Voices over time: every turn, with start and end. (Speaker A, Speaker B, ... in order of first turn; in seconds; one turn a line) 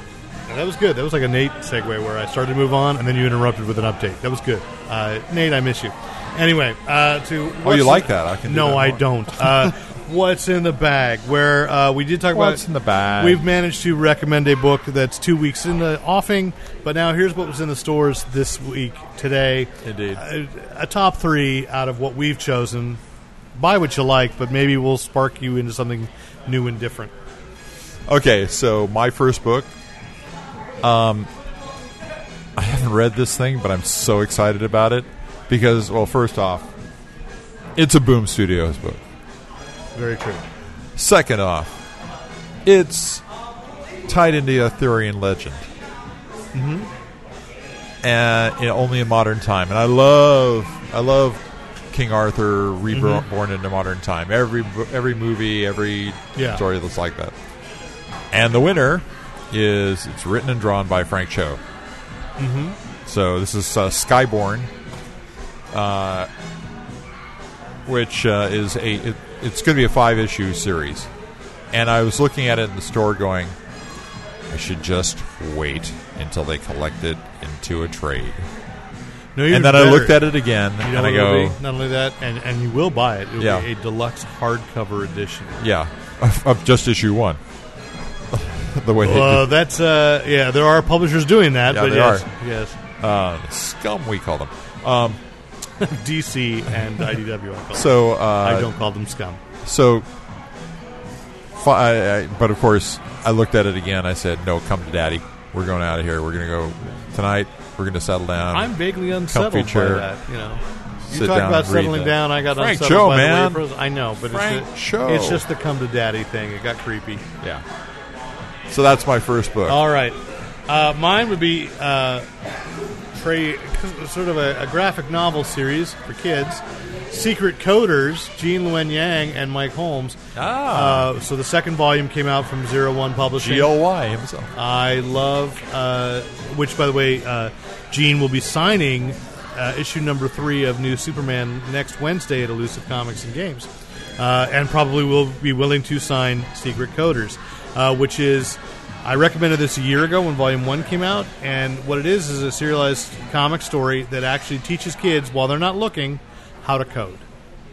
Speaker A: 0.5-12.6
Speaker B: 7.6-9.7
Speaker B: 12.3-13.4
Speaker A: 13.2-23.0
Speaker B: 19.8-20.2
Speaker A: 23.6-27.1
Speaker B: 28.1-29.7
Speaker B: 30.8-31.3
Speaker B: 32.6-36.7
Speaker B: 37.8-39.0
Speaker A: 40.0-40.4
Speaker B: 41.0-41.8
Speaker B: 42.6-43.2
Speaker B: 44.1-45.7
Speaker A: 46.5-46.9
Speaker B: 48.0-57.4
Speaker A: 52.9-53.2
Speaker A: 56.4-56.6
Speaker B: 58.3-61.6
Speaker A: 62.4-62.8
Speaker B: 63.0-64.7
Speaker B: 65.7-66.3
Speaker B: 67.9-71.1
Speaker B: 71.7-73.5
Speaker B: 74.5-78.5
Speaker A: 79.3-80.3
Speaker B: 79.5-81.6
Speaker A: 80.8-85.6
Speaker B: 83.4-83.7
Speaker B: 85.6-87.4
Speaker B: 88.3-89.5
Speaker A: 89.0-92.8
Speaker B: 91.7-92.3
Speaker B: 93.0-95.2
Speaker A: 95.8-99.4
Speaker B: 97.7-98.7
Speaker B: 99.6-100.1
Speaker B: 101.5-108.7
Speaker A: 108.5-117.2
Speaker B: 109.3-110.1
Speaker B: 111.1-113.6
Speaker B: 114.3-115.5
Speaker B: 118.7-119.8
Speaker A: 119.7-122.3
Speaker A: 123.1-130.2
Speaker B: 130.3-131.1
Speaker A: 130.7-133.7
Speaker B: 133.3-134.5
Speaker A: 134.6-157.2